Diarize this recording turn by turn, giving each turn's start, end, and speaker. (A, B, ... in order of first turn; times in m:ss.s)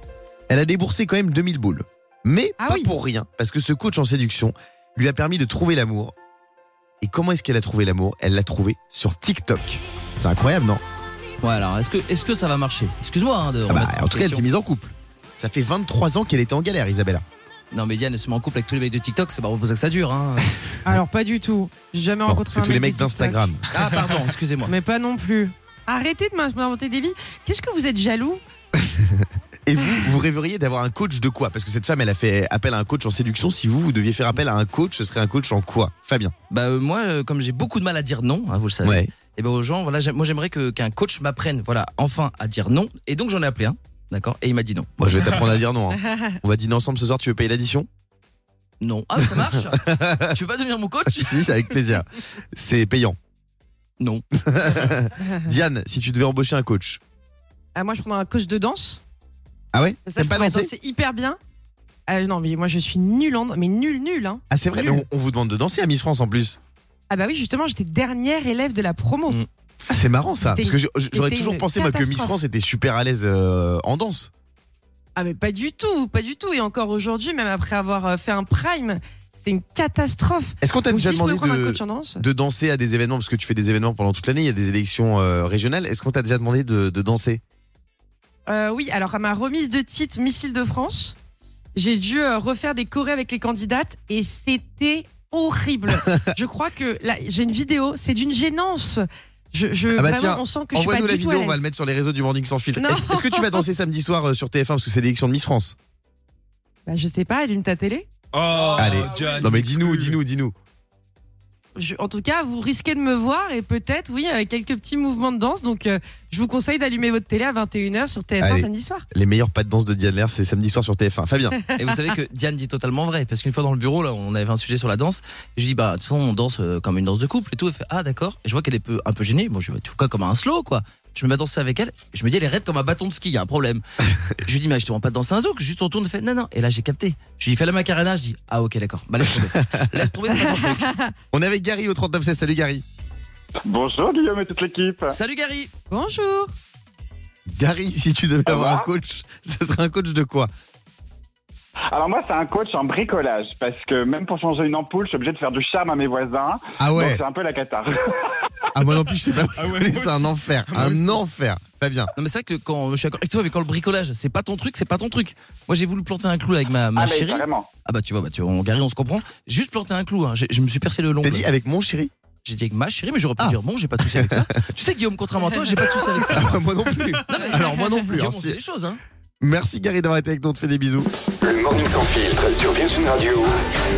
0:00.5-0:06.1 A
0:02.6-0:02.9 B
0:07.0-0:10.8 A
0:11.4-0:14.5 C
0:13.7-0:17.2 A
0:17.7-0:20.7 C
0:20.8-0:23.5 B
0:22.3-0:23.7 A
0:23.7-0:24.7 C
0:24.6-0:28.4 B
0:28.8-0:36.3 A
0:36.5-0:44.9 C
0:38.8-0:39.1 A
0:45.0-0:47.9 A
0:46.0-0:46.4 B
0:48.8-0:51.6 C
0:49.3-0:50.3 A
0:51.1-0:53.2 A
0:54.3-0:57.0 A
0:57.7-0:59.0 B
0:59.7-1:00.7 A
1:00.1-1:01.4 B
1:02.1-1:05.1 B
1:04.5-1:06.6 A
1:07.1-1:09.4 B
1:09.9-1:14.3 A
1:10.4-1:12.4 B
1:15.2-1:22.2 B
1:20.6-1:27.4 A
1:28.5-1:31.2 B
1:31.8-1:41.6 B
1:39.9-1:45.8 A
1:42.8-1:43.6 B
1:46.9-1:48.1 B
1:48.3-1:50.2 D
1:48.7-1:50.5 A
1:51.8-1:59.0 B
1:58.4-2:01.6 A
2:01.8-2:20.9 C
2:19.4-2:19.8 A
2:20.5-2:21.1 B
2:21.3-2:22.8 A
2:23.6-2:25.2 E
2:25.1-2:25.7 C
2:25.9-2:26.5 B
2:27.5-2:30.5 A
2:28.5-2:28.9 E
2:31.9-2:38.4 E
2:36.8-2:37.2 A
2:38.7-2:42.1 A
2:39.6-2:41.0 D
2:42.2-2:51.5 C
2:47.0-2:47.7 E
2:51.2-2:52.1 A
2:52.4-2:56.7 C
2:53.4-2:54.5 A
2:56.3-2:58.6 A
2:57.3-2:59.0 C
2:59.4-3:01.1 A
3:01.4-3:03.6 F